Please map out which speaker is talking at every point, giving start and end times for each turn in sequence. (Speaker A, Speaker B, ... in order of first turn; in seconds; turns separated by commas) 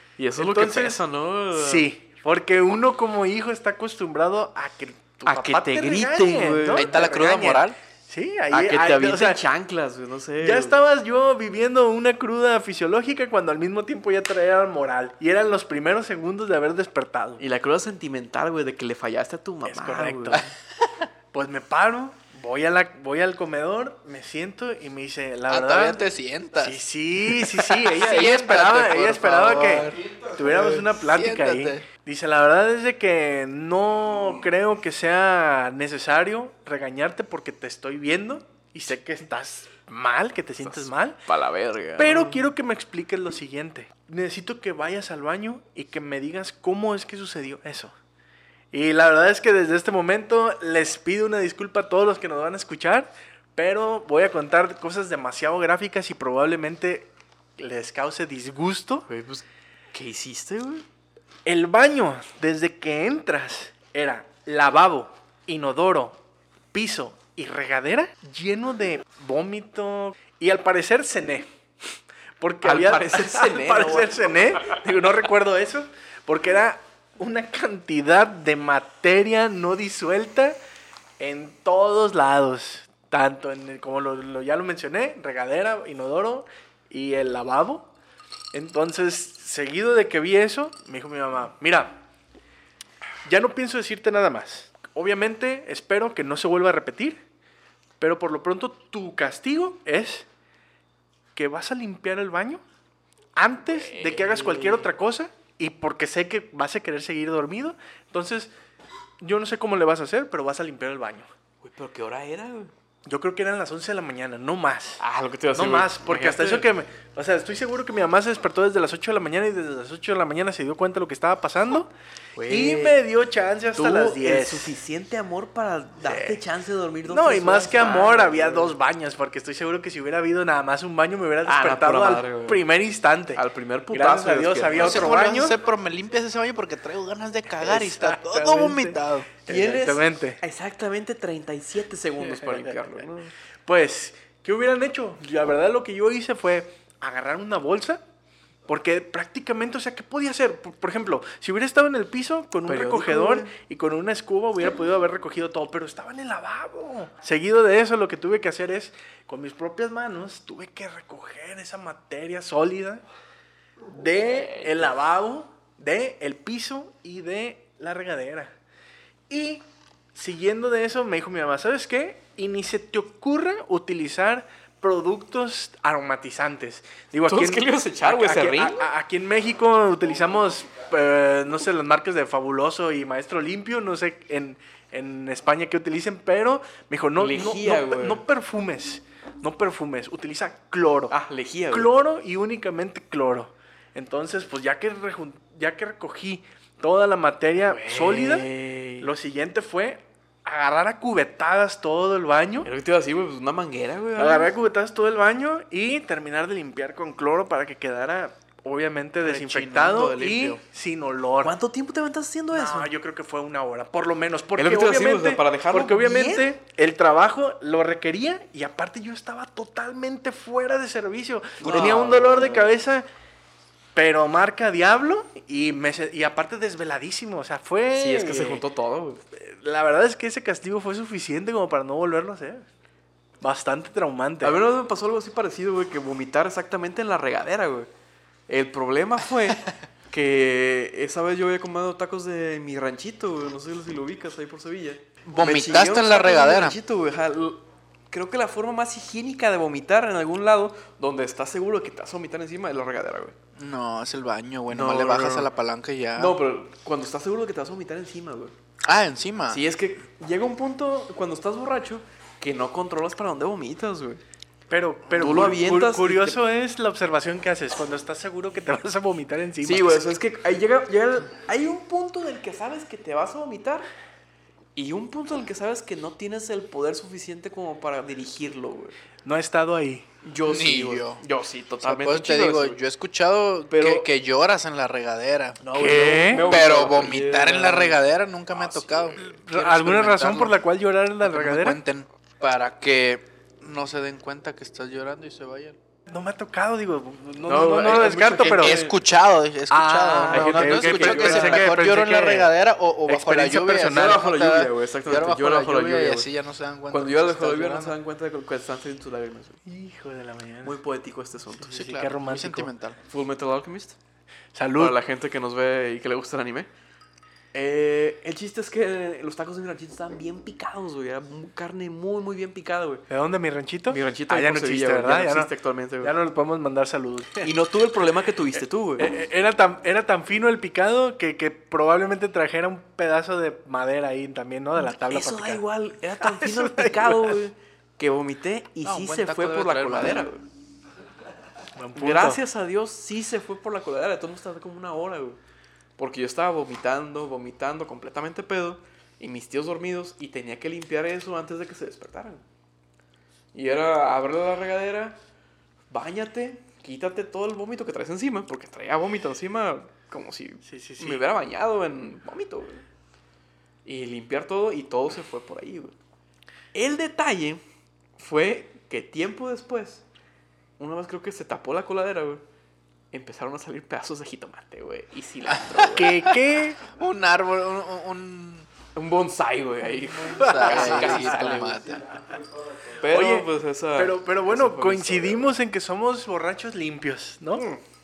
Speaker A: 0.2-1.9, Speaker B: 0.4-1.0, Speaker B: 1.5-9.4, Speaker A: 5.2-7.0, Speaker C: 6.8-7.8, Speaker A: 8.5-10.8, Speaker B: 10.4-17.4, Speaker A: 17.4-20.5, Speaker B: 19.6-20.4, Speaker B: 21.3-26.0, Speaker C: 25.5-31.9, Speaker B: 26.6-41.2, Speaker A: 40.6-42.4, Speaker B: 42.0-47.9, Speaker B: 48.7-59.1, Speaker A: 59.1-60.8, Speaker B: 61.5-66.2, Speaker B: 66.7-71.5, Speaker B: 72.4-80.6, Speaker A: 72.6-74.8, Speaker B: 81.2-87.9, Speaker B: 88.5-92.0, Speaker B: 93.2-97.2, Speaker B: 98.0-100.2, Speaker B: 101.3-102.6, Speaker B: 103.3-108.5, Speaker A: 103.7-104.9, Speaker B: 109.2-111.3, Speaker A: 111.6-112.7, Speaker B: 113.0-115.0, Speaker A: 115.0-116.7, Speaker B: 115.5-121.9, Speaker A: 122.3-123.0, Speaker B: 122.5-124.8, Speaker A: 123.8-128.7, Speaker B: 126.0-126.4, Speaker B: 127.0-135.6, Speaker A: 131.4-132.6, Speaker A: 133.3-135.1, Speaker C: 134.8-139.3, Speaker B: 137.6-140.4, Speaker A: 139.5-143.3, Speaker B: 142.2-143.0, Speaker B: 143.7-148.0, Speaker B: 148.7-163.0, Speaker A: 152.7-153.5, Speaker B: 163.9-168.5, Speaker A: 164.2-164.9, Speaker B: 169.3-169.6, Speaker B: 170.1-191.1, Speaker A: 177.2-178.8, Speaker A: 187.2-188.2, Speaker A: 191.1-191.9, Speaker B: 191.7-198.5, Speaker A: 197.6-199.1, Speaker B: 199.0-202.7, Speaker A: 202.6-204.5, Speaker B: 204.2-211.5, Speaker A: 209.2-210.6, Speaker A: 211.4-212.9, Speaker B: 212.5-223.1, Speaker A: 214.6-216.5, Speaker A: 221.6-222.7, Speaker B: 223.9-228.6, Speaker A: 227.9-229.2, Speaker B: 229.3-232.6, Speaker B: 233.4-234.6, Speaker A: 234.4-237.9, Speaker A: 238.5-253.3, Speaker C: 245.2-246.8, Speaker C: 253.6-256.3, Speaker A: 254.7-255.5, Speaker A: 256.1-258.5, Speaker C: 258.8-259.6, Speaker A: 259.5-264.2, Speaker B: 264.7-270.1, Speaker A: 265.1-266.4, Speaker A: 269.6-273.9, Speaker A: 274.7-278.9, Speaker B: 279.2-280.1, Speaker A: 280.2-282.8, Speaker C: 280.4-281.2, Speaker C: 281.8-290.6, Speaker A: 283.7-284.1, Speaker A: 285.6-288.0, Speaker B: 285.7-286.5, Speaker A: 288.5-289.2, Speaker B: 289.2-291.8, Speaker C: 291.2-295.8, Speaker B: 296.1-298.8, Speaker A: 297.4-298.9, Speaker C: 298.4-307.9, Speaker B: 299.7-302.5, Speaker A: 300.3-301.7, Speaker B: 303.1-304.2, Speaker A: 303.9-306.3, Speaker A: 306.9-309.6, Speaker B: 309.6-310.8, Speaker A: 310.6-311.7, Speaker B: 311.6-312.7, Speaker C: 311.7-313.0, Speaker A: 313.1-313.9, Speaker B: 314.5-315.0, Speaker A: 314.8-316.7, Speaker A: 317.5-323.0, Speaker B: 323.1-327.5, Speaker A: 323.9-326.1, Speaker A: 327.4-329.1, Speaker B: 329.0-335.6, Speaker A: 334.8-340.4, Speaker B: 336.2-337.4, Speaker C: 338.8-340.3, Speaker B: 341.8-342.4, Speaker A: 341.9-345.4, Speaker A: 346.0-352.4, Speaker A: 353.5-355.2, Speaker A: 355.9-362.8, Speaker B: 360.6-361.2, Speaker A: 363.8-365.9, Speaker A: 366.7-367.6, Speaker A: 368.2-370.0, Speaker A: 370.8-372.4, Speaker A: 373.1-376.1, Speaker C: 375.5-378.7, Speaker B: 375.9-376.8, Speaker A: 378.9-382.1, Speaker C: 380.3-382.0, Speaker B: 380.4-381.5, Speaker A: 382.9-385.5, Speaker B: 383.1-387.6, Speaker A: 387.5-387.8